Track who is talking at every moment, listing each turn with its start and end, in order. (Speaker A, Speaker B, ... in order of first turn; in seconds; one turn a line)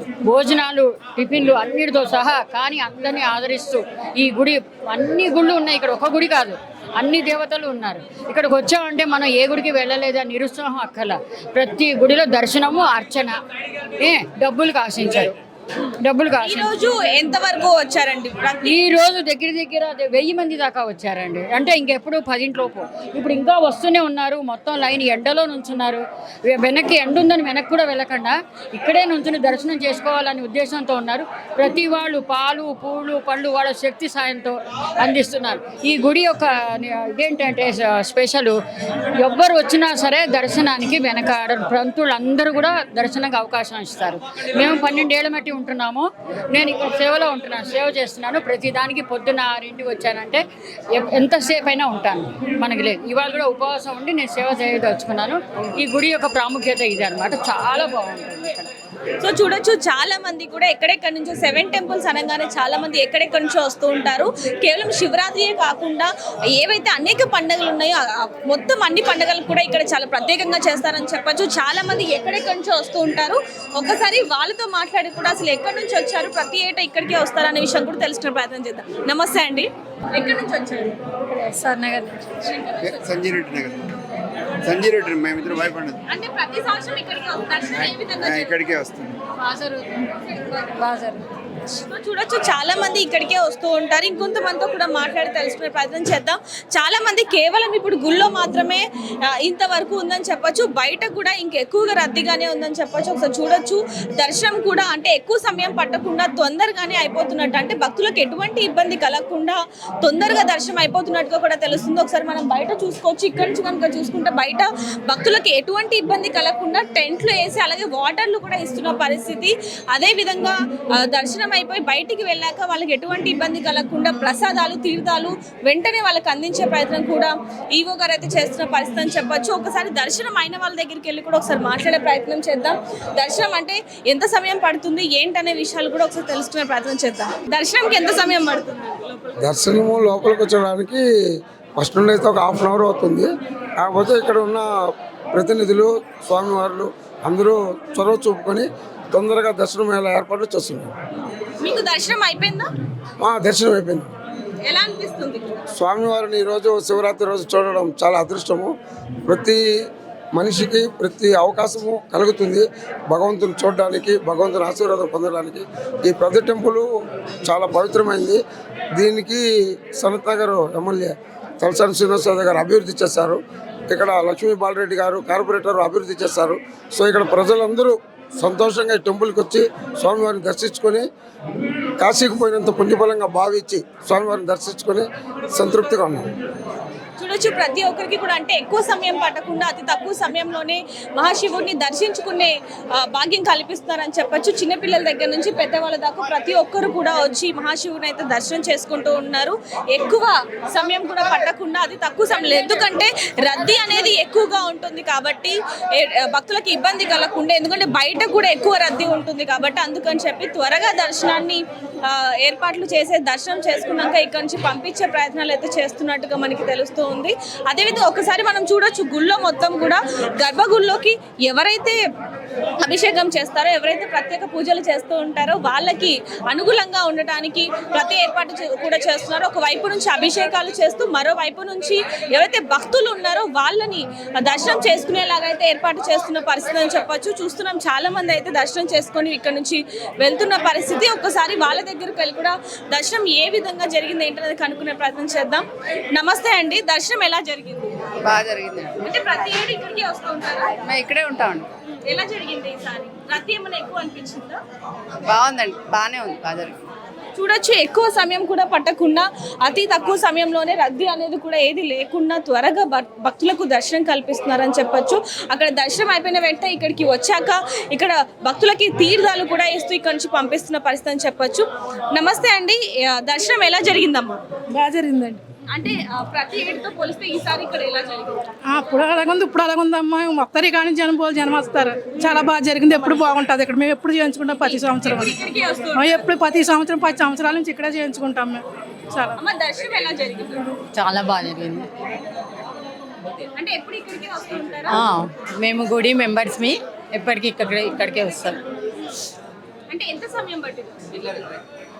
Speaker A: 0.2-13.4
Speaker A: 14.0-15.3
Speaker A: 16.0-16.7
Speaker B: 16.4-18.9
Speaker A: 18.6-38.6
Speaker A: 39.2-58.7
Speaker B: 59.2-81.0
Speaker A: 81.3-82.3
Speaker B: 82.4-83.1
Speaker C: 82.8-83.8
Speaker C: 84.6-86.0
Speaker B: 86.1-88.6
Speaker C: 87.8-89.2
Speaker A: 89.4-91.2
Speaker B: 91.7-139.5
Speaker D: 139.4-141.1
Speaker D: 141.8-144.7
Speaker D: 145.3-150.9
Speaker B: 151.6-152.7
Speaker D: 153.2-154.1
Speaker B: 154.6-155.6
Speaker D: 155.7-158.7
Speaker D: 159.2-159.7
Speaker D: 160.3-166.9
Speaker D: 167.4-168.4
Speaker D: 168.9-181.1
Speaker D: 182.0-186.3
Speaker B: 187.2-222.0
Speaker B: 222.8-248.1
Speaker E: 248.2-249.0
Speaker B: 249.0-250.9
Speaker E: 250.8-251.7
Speaker B: 252.0-254.6
Speaker E: 255.2-256.8
Speaker B: 257.4-274.4
Speaker F: 274.7-275.4
Speaker B: 275.7-278.5
Speaker F: 278.7-285.3
Speaker B: 284.6-286.3
Speaker F: 285.9-289.4
Speaker B: 289.4-290.7
Speaker E: 290.9-291.9
Speaker B: 293.6-295.0
Speaker E: 294.9-298.6
Speaker B: 299.9-301.5